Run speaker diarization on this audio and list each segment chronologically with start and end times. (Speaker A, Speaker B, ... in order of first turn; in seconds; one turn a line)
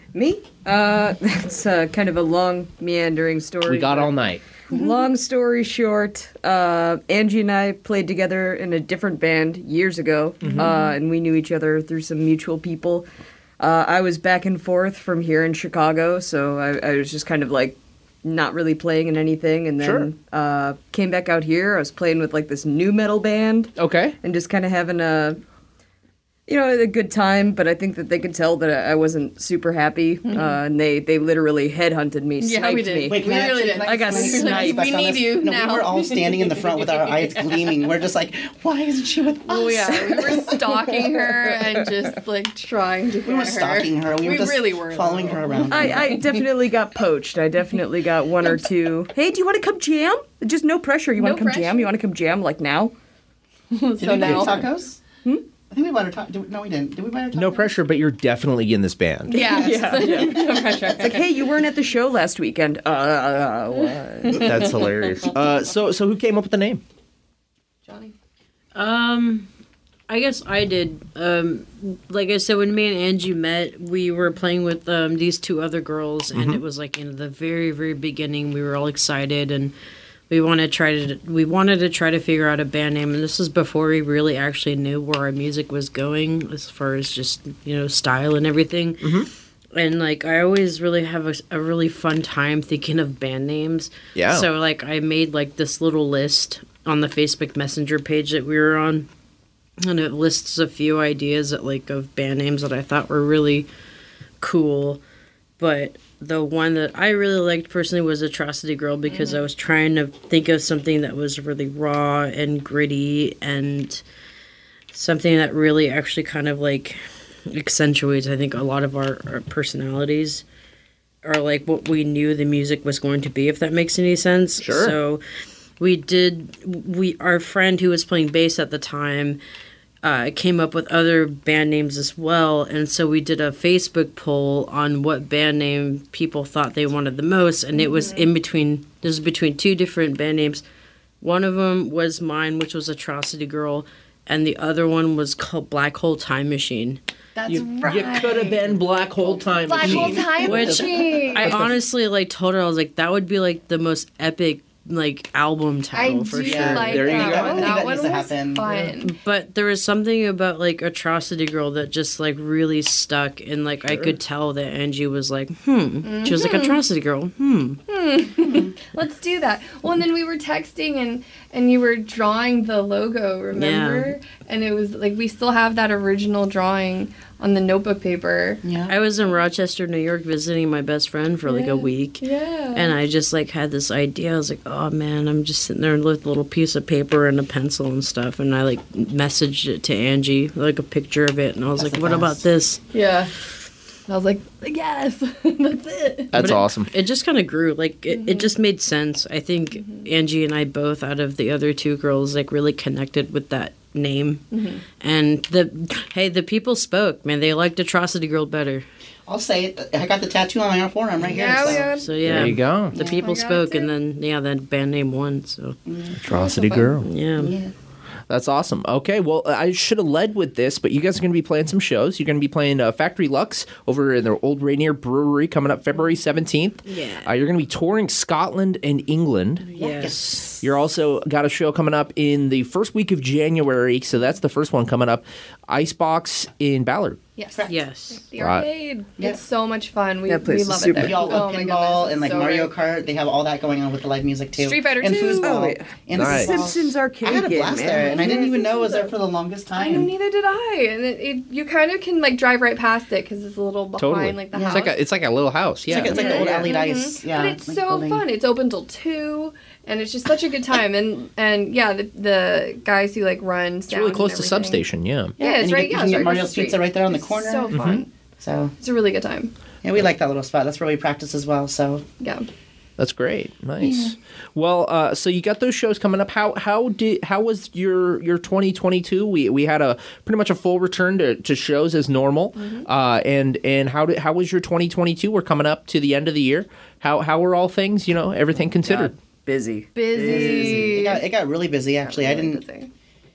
Speaker A: 0.1-13.1
Speaker B: 3.6-4.4
Speaker C: 4.7-5.0
Speaker B: 10.4-10.7
Speaker C: 10.6-11.0
Speaker A: 13.6-25.4
Speaker B: 19.8-20.1
Speaker B: 23.8-24.2
Speaker A: 26.5-35.2
Speaker C: 30.2-30.6
Speaker C: 32.4-36.6
Speaker D: 33.1-40.6
Speaker C: 39.5-46.4
Speaker A: 40.1-40.6
Speaker D: 43.2-46.1
Speaker A: 45.6-52.9
Speaker C: 51.2-51.9
Speaker C: 53.7-54.7
Speaker D: 54.0-55.0
Speaker D: 55.7-57.7
Speaker B: 57.3-59.5
Speaker C: 59.3-61.3
Speaker A: 59.3-64.5
Speaker D: 60.0-60.3
Speaker C: 64.3-65.2
Speaker B: 64.4-66.8
Speaker C: 67.8-68.1
Speaker E: 68.7-69.5
Speaker E: 70.1-79.7
Speaker B: 76.3-76.6
Speaker E: 80.3-89.2
Speaker B: 89.0-89.3
Speaker E: 89.7-99.1
Speaker B: 94.2-94.5
Speaker E: 99.8-103.7
Speaker E: 104.4-105.0
Speaker E: 105.6-114.0
Speaker C: 109.0-109.5
Speaker E: 114.9-120.4
Speaker E: 121.2-125.2
Speaker B: 124.6-125.0
Speaker E: 125.8-129.4
Speaker E: 130.0-140.6
Speaker C: 137.7-138.2
Speaker E: 141.2-147.0
Speaker D: 147.3-148.3
Speaker B: 147.5-151.8
Speaker C: 147.5-148.8
Speaker C: 149.5-151.6
Speaker D: 149.7-150.9
Speaker E: 150.4-157.4
Speaker C: 155.9-159.1
Speaker D: 156.4-158.9
Speaker B: 156.8-157.8
Speaker E: 159.0-167.8
Speaker C: 166.0-166.8
Speaker C: 167.9-178.6
Speaker D: 168.4-168.7
Speaker E: 173.5-174.1
Speaker D: 178.6-178.9
Speaker E: 178.9-192.8
Speaker C: 181.4-182.9
Speaker D: 191.7-192.4
Speaker C: 192.9-193.3
Speaker C: 194.1-196.4
Speaker B: 196.3-196.9
Speaker E: 196.3-204.4
Speaker C: 198.1-198.5
Speaker C: 199.8-200.1
Speaker C: 204.5-204.8
Speaker E: 205.0-208.8
Speaker D: 209.3-211.9
Speaker E: 211.2-215.8
Speaker C: 211.3-212.5
Speaker B: 212.2-212.9
Speaker D: 212.9-213.2
Speaker C: 213.2-213.9
Speaker D: 215.8-216.2
Speaker B: 216.2-217.1
Speaker C: 216.3-217.0
Speaker E: 217.0-217.6
Speaker D: 217.4-217.7
Speaker B: 218.3-229.7
Speaker E: 226.8-227.3
Speaker E: 229.7-230.5
Speaker D: 229.7-230.7
Speaker B: 230.6-237.2
Speaker C: 237.3-242.7
Speaker D: 237.5-237.8
Speaker E: 237.7-238.2
Speaker B: 238.4-238.7
Speaker A: 240.3-241.4
Speaker D: 240.9-250.1
Speaker C: 244.6-245.8
Speaker A: 245.4-248.3
Speaker B: 246.1-246.6
Speaker C: 247.8-249.1
Speaker C: 249.7-255.0
Speaker B: 254.0-256.6
Speaker D: 254.5-254.8
Speaker D: 255.9-258.2
Speaker C: 256.0-268.1
Speaker A: 256.2-256.7
Speaker B: 263.9-265.4
Speaker D: 265.4-268.7
Speaker B: 267.7-268.0
Speaker C: 268.8-269.5
Speaker D: 269.8-272.0
Speaker C: 272.2-272.4
Speaker B: 273.0-289.1
Speaker D: 273.8-274.1
Speaker C: 282.6-282.9
Speaker A: 288.8-291.2
Speaker C: 289.9-291.3
Speaker D: 290.2-292.6
Speaker C: 292.0-292.9